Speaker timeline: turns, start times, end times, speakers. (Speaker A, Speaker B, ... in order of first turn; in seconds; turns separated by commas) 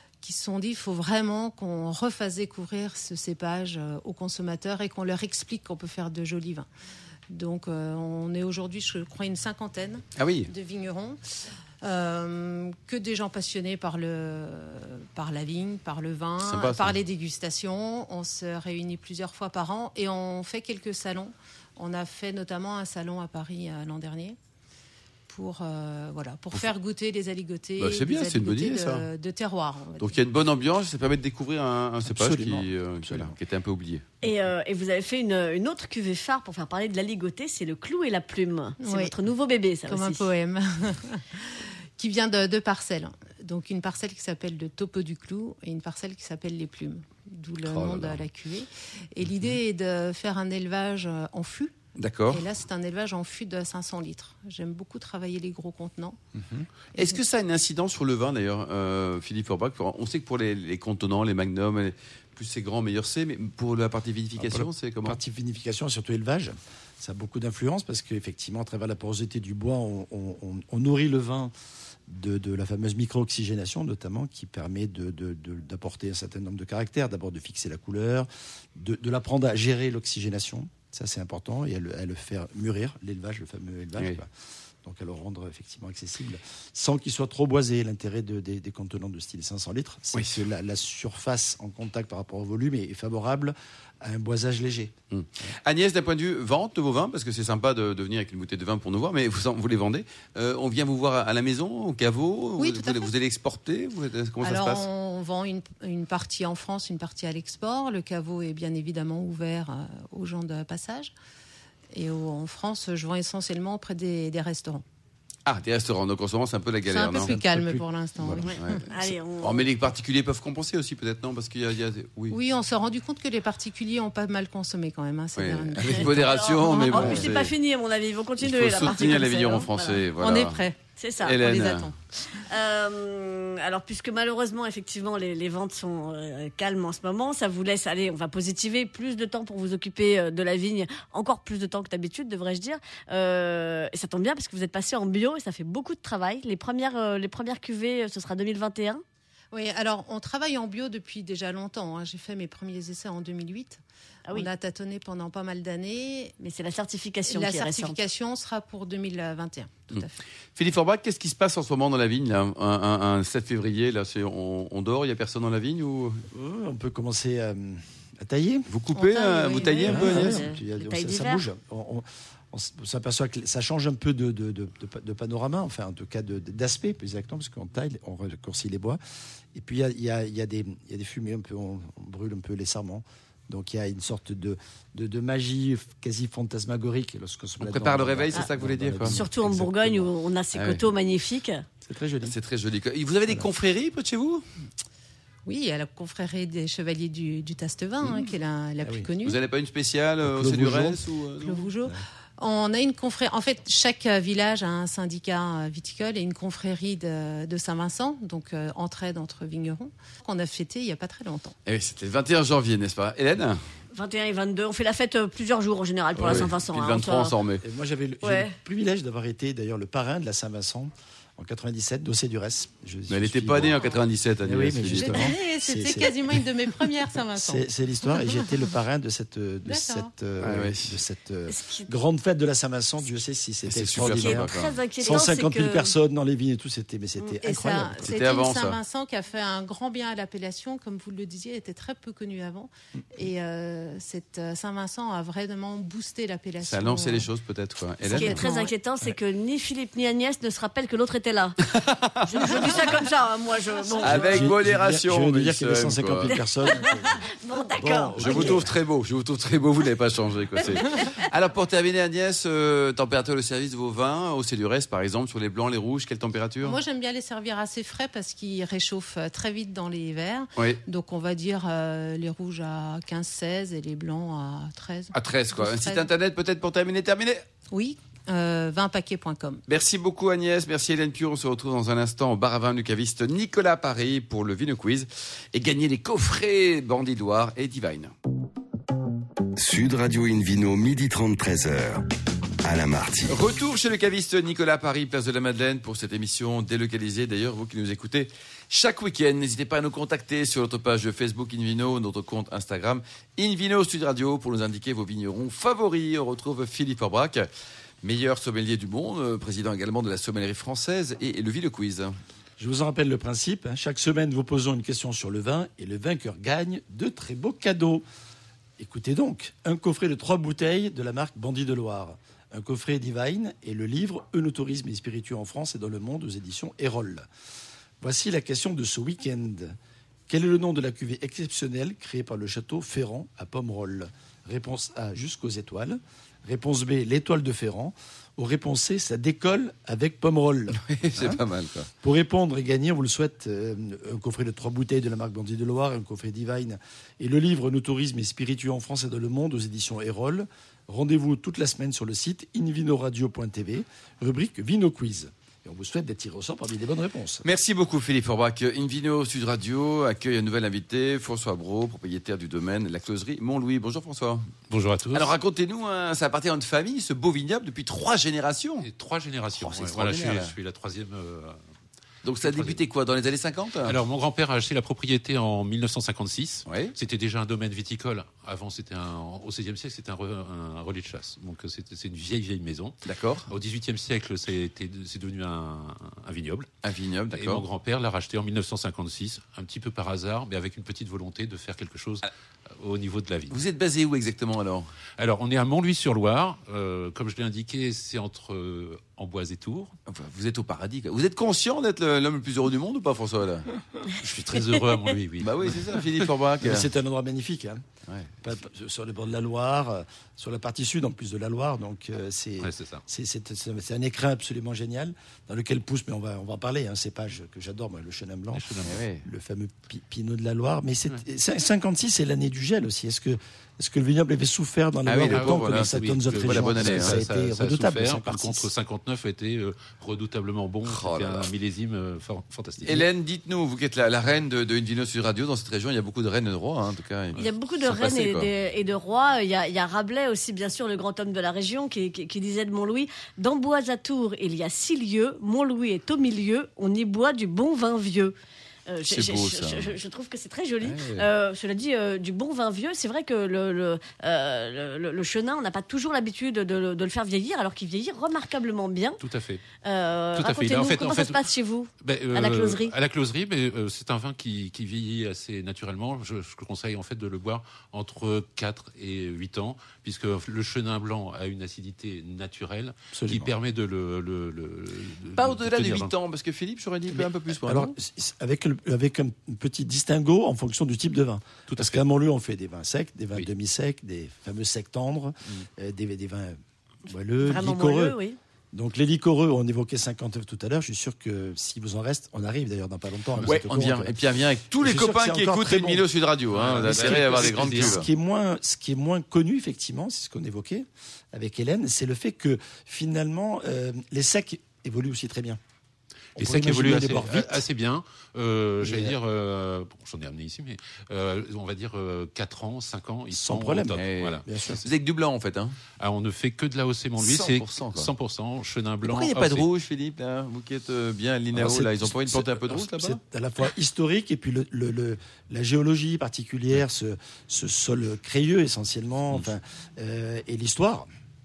Speaker A: 0.2-6.7, Speaker A: 7.3-11.2, Speaker B: 10.2-10.5, Speaker A: 11.8-24.4, Speaker B: 16.4-16.9, Speaker A: 25.3-30.1, Speaker B: 27.8-29.1, Speaker B: 30.0-34.0, Speaker C: 32.0-33.4, Speaker D: 34.2-40.2, Speaker A: 38.8-39.1, Speaker A: 39.9-51.7, Speaker B: 47.6-48.2, Speaker B: 52.0-52.4, Speaker A: 52.3-56.2, Speaker C: 56.4-56.6, Speaker A: 56.9-57.2, Speaker B: 57.0-65.2, Speaker C: 64.4-71.5, Speaker C: 72.1-84.3, Speaker C: 84.8-94.9, Speaker B: 95.1-104.8, Speaker A: 102.6-103.1, Speaker A: 104.4-111.1, Speaker A: 111.9-114.8, Speaker B: 115.5-117.3, Speaker A: 116.9-118.8, Speaker C: 117.2-118.5, Speaker D: 118.4-119.7, Speaker B: 118.6-118.9, Speaker B: 119.4-122.4, Speaker A: 122.3-126.3, Speaker B: 125.4-127.5, Speaker D: 125.8-130.0, Speaker A: 126.9-127.2, Speaker B: 128.4-130.6, Speaker A: 130.2-131.9, Speaker D: 131.0-131.4, Speaker B: 131.2-131.9, Speaker D: 132.3-149.0, Speaker A: 149.5-156.3, Speaker D: 156.4-158.0, Speaker A: 157.3-160.2, Speaker B: 160.6-166.2, Speaker C: 166.3-168.7, Speaker B: 168.7-170.4, Speaker A: 168.9-170.3, Speaker D: 169.6-171.4, Speaker C: 169.8-179.0, Speaker C: 179.5-190.1, Speaker B: 187.6-189.2, Speaker D: 189.0-191.6, Speaker B: 190.5-190.8, Speaker C: 191.8-192.3, Speaker B: 192.2-194.4, Speaker A: 195.5-199.4, Speaker C: 198.8-199.1, Speaker B: 199.2-201.7, Speaker C: 200.2-201.0, Speaker A: 201.4-211.5, Speaker B: 211.7-213.6, Speaker D: 213.9-217.4, Speaker C: 216.2-216.5, Speaker B: 216.2-217.6, Speaker C: 217.6-223.8, Speaker D: 218.2-218.6, Speaker B: 223.1-225.3, Speaker C: 224.4-226.4, Speaker A: 224.9-227.6, Speaker C: 227.3-238.1, Speaker A: 229.6-230.1, Speaker B: 230.4-231.0, Speaker D: 231.5-231.9, Speaker B: 233.7-234.7, Speaker D: 234.0-235.9, Speaker A: 237.4-247.3, Speaker B: 238.0-238.8, Speaker B: 246.6-248.4, Speaker A: 248.1-248.7, Speaker D: 248.1-251.6, Speaker B: 251.7-252.8, Speaker D: 252.2-254.5, Speaker C: 254.0-257.2, Speaker B: 254.0-256.3, Speaker D: 256.3-258.6, Speaker C: 257.8-258.7, Speaker B: 258.2-266.8, Speaker D: 260.6-261.1, Speaker A: 266.6-276.1, Speaker B: 275.1-277.4, Speaker A: 277.7-279.6, Speaker B: 279.7-288.1, Speaker E: 289.6-292.1, Speaker E: 292.6-293.4, Speaker B: 293.3-307.5, Speaker B: 308.0-312.1, Speaker C: 312.6-318.0, Speaker C: 318.8-327.2, Speaker C: 328.0-329.8, Speaker C: 330.3-341.4, Speaker B: 340.8-341.9, Speaker C: 342.0-357.4, Speaker B: 357.4-364.5, Speaker F: 364.7-365.3, Speaker B: 365.1-368.9, Speaker F: 368.8-371.6, Speaker B: 369.5-370.5, Speaker B: 372.2-374.0, Speaker F: 372.4-372.8, Speaker F: 373.8-386.7, Speaker B: 376.7-376.9, Speaker B: 383.1-383.5, Speaker B: 386.8-387.6, Speaker F: 387.3-393.6, Speaker B: 393.5-394.9, Speaker F: 395.2-399.9, Speaker B: 400.1-403.7, Speaker F: 404.1-406.2, Speaker B: 405.4-406.9, Speaker C: 406.6-407.8, Speaker B: 408.1-408.4, Speaker C: 408.4-428.7, Speaker F: 412.6-413.0, Speaker F: 418.5-419.0, Speaker B: 418.8-419.2, Speaker B: 425.1-427.2, Speaker F: 425.2-433.1, Speaker B: 430.9-431.5, Speaker B: 432.8-438.5, Speaker D: 437.4-448.4, Speaker D: 448.9-459.2, Speaker B: 449.1-449.9, Speaker B: 450.8-451.2, Speaker F: 459.2-459.6, Speaker D: 459.8-462.9, Speaker F: 460.4-461.4, Speaker F: 462.0-476.1, Speaker C: 473.1-473.5, Speaker B: 475.4-477.9, Speaker C: 477.1-488.2, Speaker F: 481.7-482.0, Speaker D: 487.4-488.4, Speaker C: 488.7-494.1, Speaker B: 493.4-498.0, Speaker C: 494.8-505.6, Speaker F: 496.5-498.1, Speaker C: 506.4-507.6, Speaker F: 506.4-514.5, Speaker C: 508.8-509.1, Speaker C: 513.3-514.9, Speaker B: 513.9-515.8, Speaker F: 515.9-519.7, Speaker B: 517.2-518.1, Speaker B: 519.0-523.2, Speaker C: 521.5-531.1